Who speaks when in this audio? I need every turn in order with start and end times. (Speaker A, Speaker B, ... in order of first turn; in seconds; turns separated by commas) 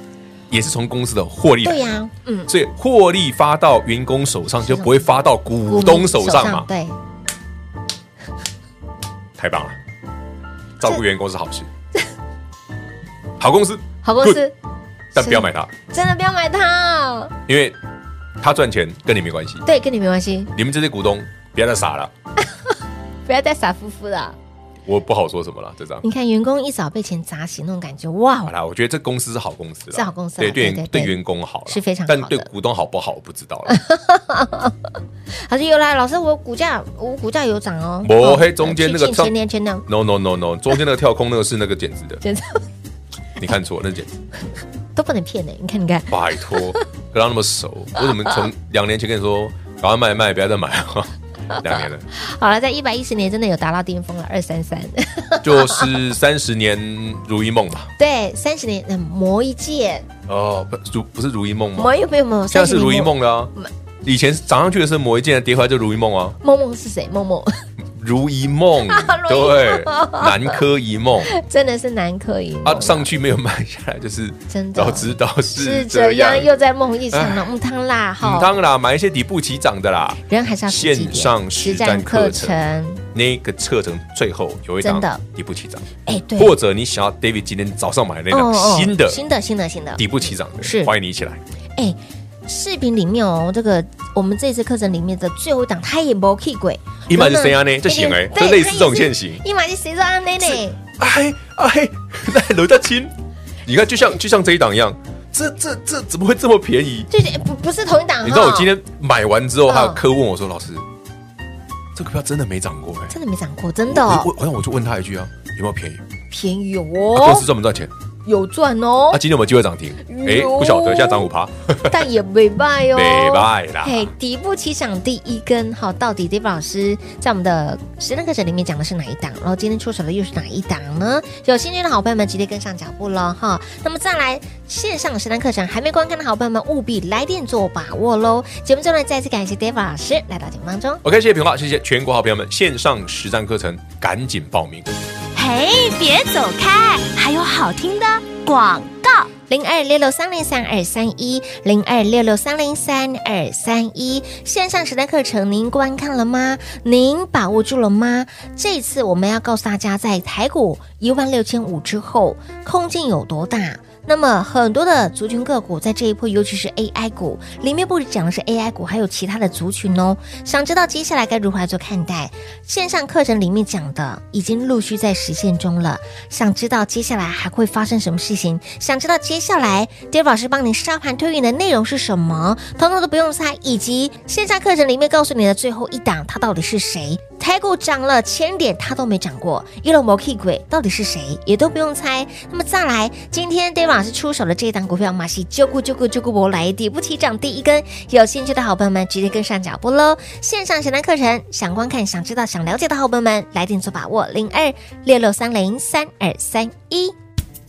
Speaker A: 0.5-1.9, Speaker B: 1.6-2.5, Speaker A: 2.5-6.7, Speaker B: 4.7-5.0, Speaker B: 5.6-7.0, Speaker A: 9.4-9.8, Speaker A: 10.8-11.7, Speaker A: 13.4-14.4, Speaker B: 14.0-14.5, Speaker A: 15.1-15.7, Speaker B: 15.2-17.3, Speaker A: 17.5-17.8, Speaker A: 18.4-19.6, Speaker B: 19.6-20.5, Speaker A: 20.5-22.1, Speaker B: 23.2-24.4, Speaker A: 24.9-26.0, Speaker B: 26.0-28.5, Speaker A: 28.4-33.8, Speaker B: 29.9-31.1, Speaker B: 31.7-32.5, Speaker B: 33.7-34.8, Speaker B: 35.3-39.9, Speaker A: 38.0-39.3, Speaker A: 39.9-42.2, Speaker B: 42.2-42.6, Speaker A: 43.4-44.2, Speaker B: 44.9-46.8, Speaker A: 46.1-52.1, Speaker B: 51.5-55.9, Speaker A: 55.4-57.9, Speaker B: 58.0-60.1, Speaker A: 60.3-61.9, Speaker B: 61.8-63.7, Speaker A: 62.5-63.5, Speaker A: 64.0-66.4, Speaker B: 66.4-67.6, Speaker A: 67.9-71.3, Speaker B: 68.9-70.5, Speaker B: 71.3-73.1, Speaker A: 72.6-76.5, Speaker B: 74.5-78.5, Speaker A: 77.1-77.5, Speaker A: 78.2-82.6, Speaker B: 80.3-83.0, Speaker A: 83.1-89.2, Speaker B: 84.8-85.2, Speaker B: 86.0-86.5, Speaker B: 88.3-90.9, Speaker A: 90.0-91.4, Speaker B: 91.8-100.8, Speaker A: 97.1-99.4, Speaker A: 100.4-103.1, Speaker A: 103.7-107.1, Speaker B: 107.1-108.7, Speaker A: 108.2-110.8, Speaker B: 109.7-110.0, Speaker A: 111.9-113.1, Speaker B: 113.1-114.3, Speaker A: 113.9-116.0, Speaker B: 116.3-117.4, Speaker A: 117.1-117.9, Speaker B: 118.2-119.2, Speaker A: 119.1-122.1, Speaker B: 120.0-121.3, Speaker B: 121.8-141.0, Speaker A: 122.9-124.1, Speaker A: 141.0-144.9, Speaker C: 145.3-149.3, Speaker B: 149.5-207.1